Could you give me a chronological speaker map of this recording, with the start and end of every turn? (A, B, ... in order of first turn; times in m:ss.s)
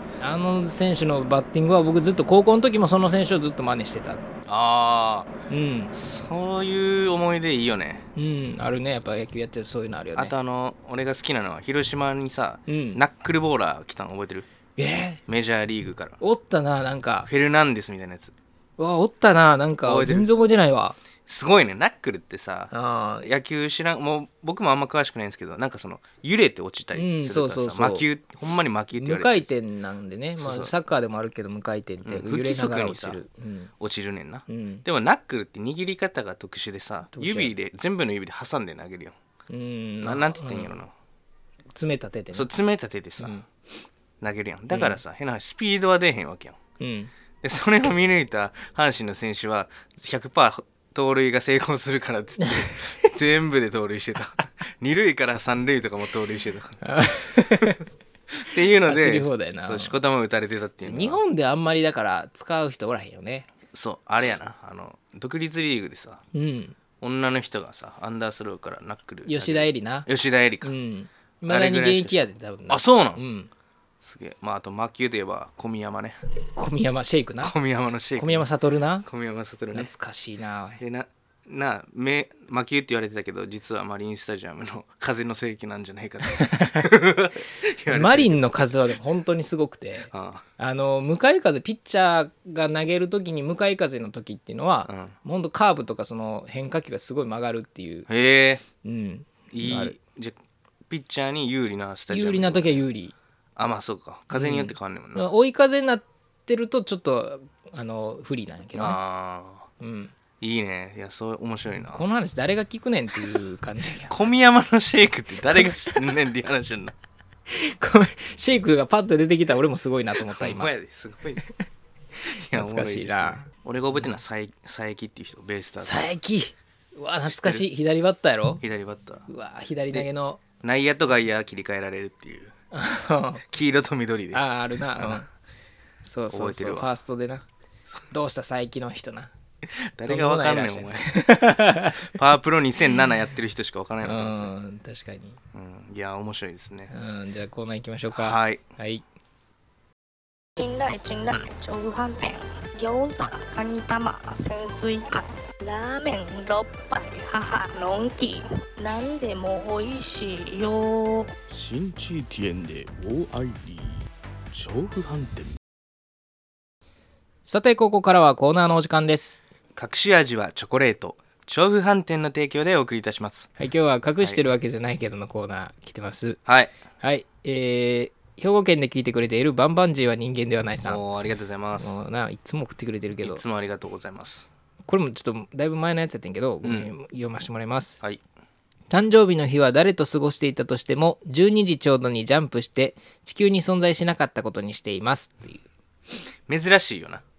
0:00.2-0:04.2 A
0:04.4-0:05.3 B
0:05.5-0:05.9 A
0:05.9-0:08.1 B
0:08.2-0:10.3 A
0:10.1-0:14.5 B
0:12.7-0:13.0 A
0:14.8-0:15.2 A
0:15.3-0:16.2 B
0:16.2-0:17.3 A
0:17.2-0:18.3 B
0:18.8-0:21.0 A
0:19.8-0:20.3 B
0:21.2-0:29.5 B
0:22.7-0:23.3 A
0:26.9-0:28.0 A
0:28.9-0:33.7 A
0:30.4-0:30.7 B
0:32.0-0:33.2 B
0:33.8-0:39.2 B
0:34.5-0:34.8 A
0:37.1-0:37.5 A
0:39.5-0:40.7 A
0:40.0-0:40.9 B
0:41.7-0:42.5 A
0:42.3-0:43.4 B
0:44.2-0:46.6 B
0:44.7-0:45.0 A
0:46.8-0:47.1 A
0:47.4-0:56.9 B
0:52.4-0:53.0 A
0:56.8-0:57.8 A
0:58.4-1:01.2 B
0:58.8-1:00.0 A
1:00.8-1:03.5 A
1:03.7-1:06.2 B
1:06.3-1:06.8 A
1:07.0-1:10.7 B
1:09.2-1:10.1 A
1:10.6-1:13.5 A
1:11.5-1:13.2 B
1:14.0-1:16.2 B
1:16.6-1:17.5 A
1:17.4-1:18.5 B
1:18.2-1:19.0 A
1:19.0-1:19.9 B
1:19.7-1:20.8 A
1:20.8-1:28.7 B
1:26.3-1:26.8 A
1:27.9-1:38.1 A
1:30.1-1:30.4 B
1:34.9-1:35.1 B
1:38.1-1:38.6 B
1:38.8-1:40.0 A
1:39.5-1:40.4 B
1:40.9-1:42.8 B
1:42.1-1:43.1 A
1:43.6-1:45.3 B
1:44.3-1:49.0 A
1:48.7-1:49.6 B
1:49.8-1:50.1 A
1:50.4-1:52.0 B
1:51.9-1:54.1 A
1:54.1-1:56.9 B
1:55.6-1:56.0 A
1:57.5-2:00.7 A
2:00.2-2:01.4 B
2:02.3-2:06.1 B
2:02.5-2:04.2 A
2:05.8-2:08.6 A
2:07.3-2:07.6 B
2:08.6-2:09.2 B
2:09.3-2:10.4 A
2:10.6-2:12.5 B
2:12.7-2:13.4 A
2:13.5-2:14.4 B
2:14.3-2:15.3 A
2:15.0-2:15.2 B
2:16.0-2:17.4 A
2:16.3-2:16.9 B
2:18.1-2:19.3 A
2:19.7-2:21.3 B
2:20.1-2:22.1 A
2:22.0-2:24.5 B
2:24.0-2:25.4 A
2:25.5-2:26.9 B
2:26.9-2:29.0 A
2:28.1-2:28.6 B
2:30.6-2:41.3 C
2:41.5-2:45.6 D
2:47.5-2:49.4 A
2:49.7-2:53.5 B
2:53.6-2:56.4 A
2:56.4-2:56.7 B
2:57.0-3:01.0 A
3:00.8-3:02.0 B
3:01.8-3:03.4 A
3:03.2-3:04.5 B
3:04.9-3:08.0 A
3:06.6-3:06.9 B
3:08.9-3:15.6 A
3:16.5-3:17.2 B